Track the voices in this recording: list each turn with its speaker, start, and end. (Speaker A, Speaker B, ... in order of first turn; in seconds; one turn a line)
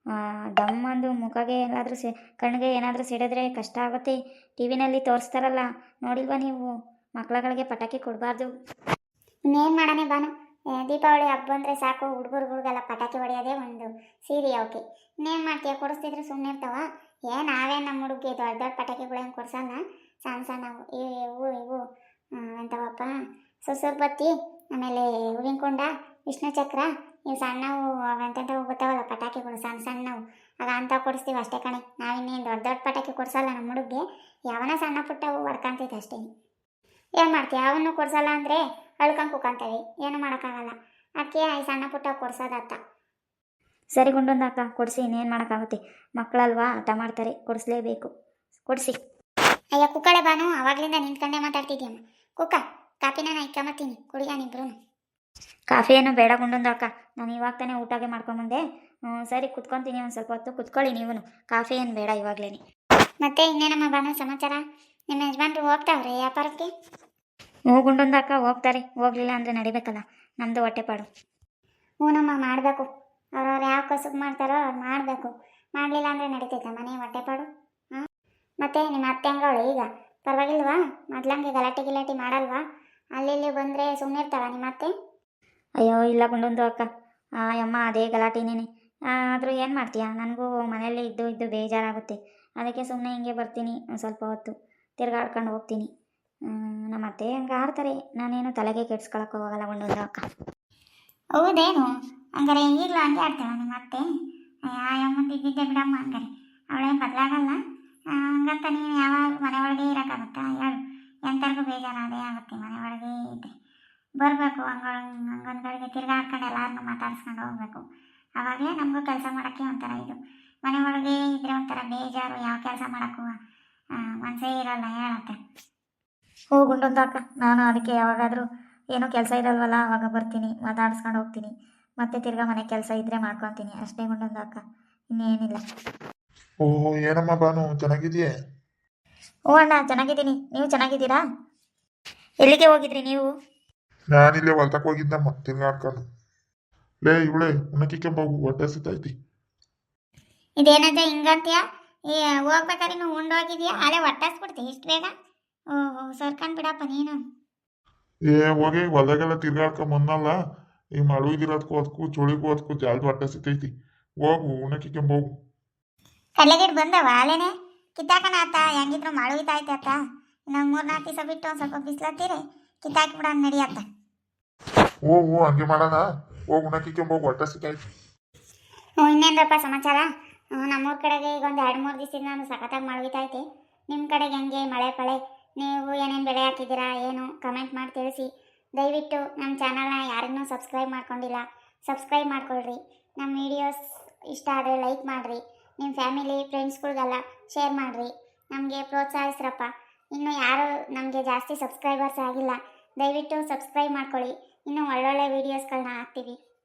Speaker A: 0.6-8.5
Speaker B: 9.5-21.8
Speaker B: 22.4-23.1
Speaker B: 23.6-36.2
Speaker B: 37.2-42.8
Speaker A: 43.9-48.1
Speaker A: 48.6-49.0
Speaker B: 49.8-54.7
Speaker A: 55.7-58.6
Speaker A: 59.1-62.6
Speaker B: 63.2-64.6
Speaker B: 65.1-66.7
Speaker A: 67.7-71.1
Speaker B: 72.0-72.9
Speaker B: 73.4-78.0
Speaker B: 78.6-82.6
Speaker B: 83.2-84.9
Speaker A: 85.8-86.8
Speaker A: 87.6-95.9
Speaker A: 96.5-100.2
Speaker B: 101.4-104.0
Speaker B: 104.7-107.6
Speaker B: 108.1-113.5
Speaker B: 114.2-117.8
Speaker B: 118.4-123.3
Speaker B: 124.2-125.4
Speaker A: 126.5-131.5
Speaker A: 132.0-134.6
Speaker A: 135.1-135.6
Speaker C: 136.6-138.3
Speaker A: 139.5-141.2
Speaker A: 142.4-143.3
Speaker C: 144.1-146.0
Speaker C: 147.0-149.1
Speaker B: 150.6-155.1
Speaker B: 155.7-157.2
Speaker C: 158.3-160.3
Speaker C: 161.0-165.3
Speaker B: 166.4-170.0
Speaker B: 170.5-173.8
Speaker C: 175.1-177.8
Speaker B: 179.0-193.8
Speaker B: 194.3-206.4